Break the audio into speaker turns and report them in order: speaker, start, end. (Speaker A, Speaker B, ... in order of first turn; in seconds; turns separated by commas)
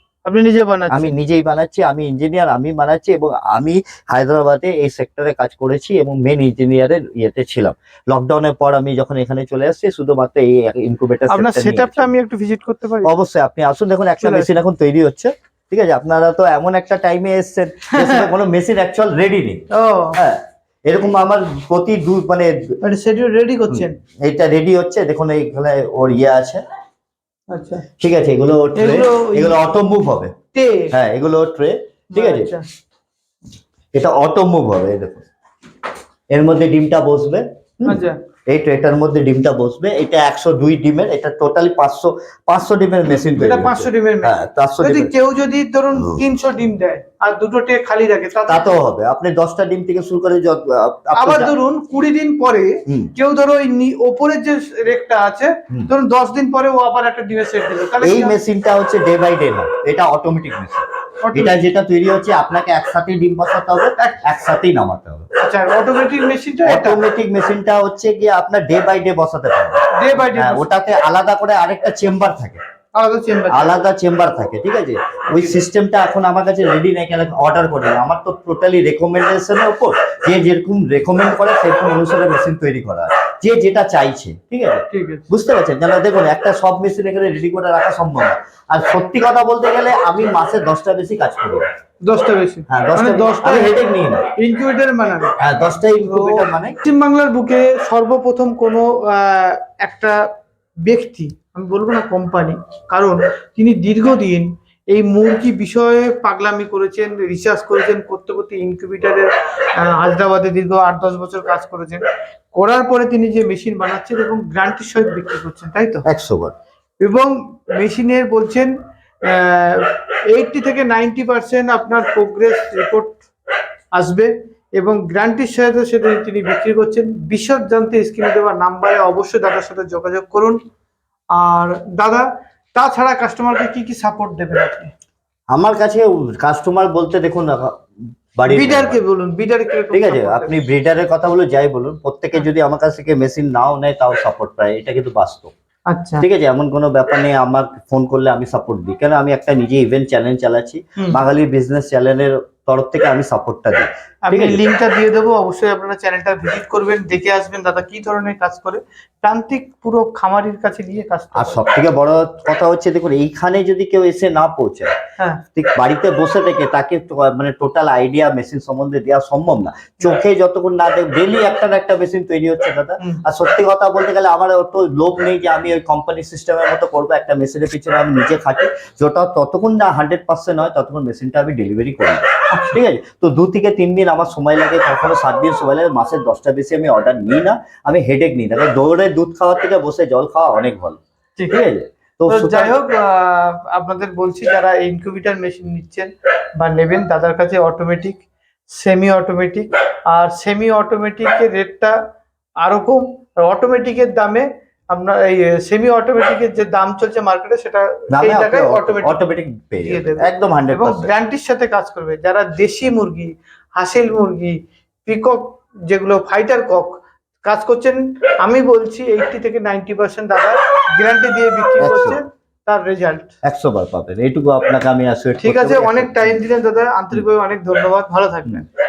Speaker A: 0.2-1.1, Speaker B: 0.9-12.1, Speaker A: 11.3-13.1, Speaker B: 13.0-19.6, Speaker A: 14.2-14.5, Speaker A: 18.0-18.3, Speaker A: 19.7-20.2, Speaker B: 20.1-22.7, Speaker A: 22.8-23.9, Speaker B: 23.7-26.6, Speaker A: 27.5-27.8, Speaker B: 28.0-30.3, Speaker A: 28.8-29.6, Speaker A: 30.5-30.9, Speaker B: 30.9-32.5, Speaker A: 32.1-32.6, Speaker B: 33.9-35.3, Speaker B: 36.3-45.1, Speaker A: 37.8-38.2, Speaker A: 43.4-48.8, Speaker B: 48.5-51.5, Speaker A: 51.1-58.4, Speaker B: 58.0-65.2, Speaker A: 61.2-61.6, Speaker A: 65.4-67.0, Speaker B: 66.7-72.6, Speaker A: 70.0-70.6, Speaker A: 73.0-73.8, Speaker B: 73.5-91.6, Speaker A: 75.3-75.6, Speaker A: 84.9-85.2, Speaker A: 92.0-93.8, Speaker B: 92.7-94.3, Speaker A: 94.3-95.3, Speaker B: 95.4-96.8, Speaker A: 96.0-100.3, Speaker A: 100.8-116.0, Speaker B: 116.0-116.5, Speaker A: 117.0-118.7, Speaker A: 119.3-123.2, Speaker A: 123.9-130.6, Speaker A: 131.3-134.9, Speaker B: 135.5-137.8, Speaker B: 138.3-139.0, Speaker A: 138.4-140.5, Speaker B: 139.9-145.5, Speaker A: 145.9-146.2, Speaker B: 146.2-154.6, Speaker A: 154.2-161.6, Speaker B: 161.3-164.9, Speaker B: 165.5-192.8, Speaker A: 192.3-198.2, Speaker A: 198.7-201.9, Speaker A: 202.6-209.3, Speaker B: 208.1-211.1, Speaker A: 209.8-223.3, Speaker B: 221.8-222.2, Speaker B: 223.4-226.4, Speaker A: 225.4-228.6